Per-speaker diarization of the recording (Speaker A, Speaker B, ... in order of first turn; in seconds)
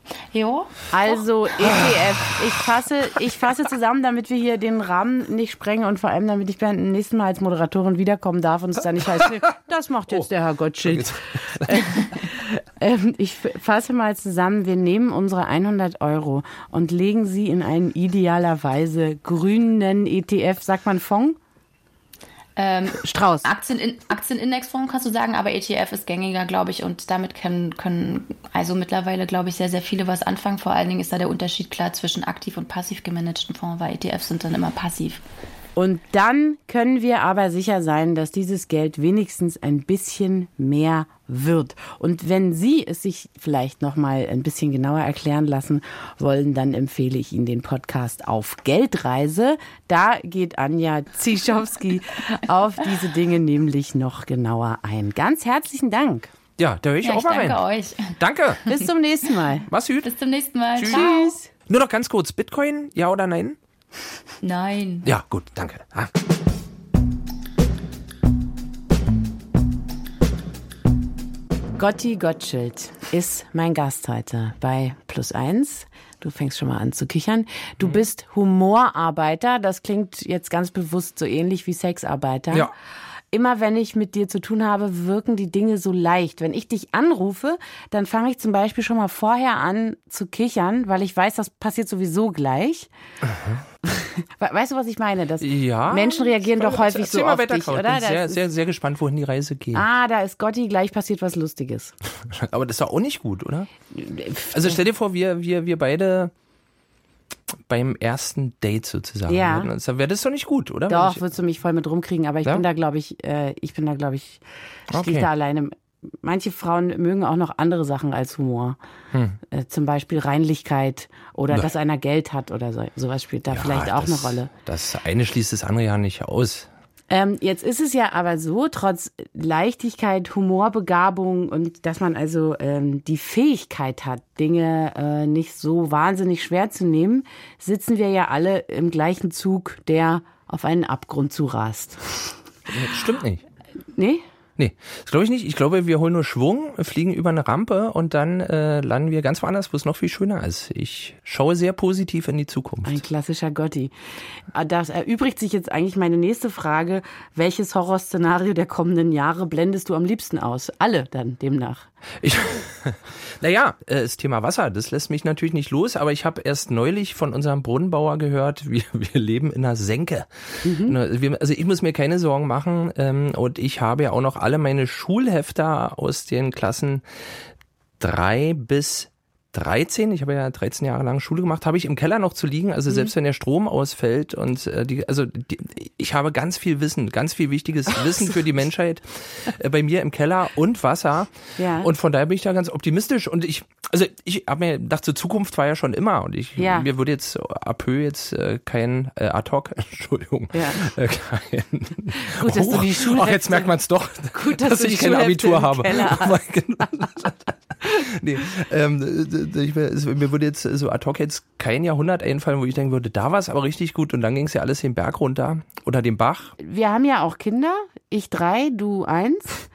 Speaker A: 0.3-0.9, 22.6-35.2, 57.0-58.1, 60.0-61.3, 64.4-65.1
Speaker B: 0.9-21.4, 23.0-23.5, 35.8-56.3, 58.7-59.7, 60.9-61.5, 71.8-82.7, 83.3-92.9, 93.8-98.4, 99.7-101.9, 103.9-104.8, 109.3-109.7, 110.9-118.8, 119.5-124.5, 127.1-142.7, 143.9-144.2, 152.8-153.9, 154.5-161.9, 170.6-171.0, 191.6-191.9, 196.6-196.9, 200.5-200.9, 202.2-203.7, 204.3-207.1, 216.6-219.6
Speaker C: 1.6-1.9, 10.8-12.1, 56.6-58.6, 59.7-60.1, 60.8-61.0, 61.7-63.6, 65.0-66.1, 95.4-99.9, 102.3-103.7, 104.5-106.3, 107.7-111.2, 114.9-115.3, 119.1-119.4, 123.5-126.7, 142.7-143.4, 144.6-153.0, 162.2-177.0, 178.0-216.5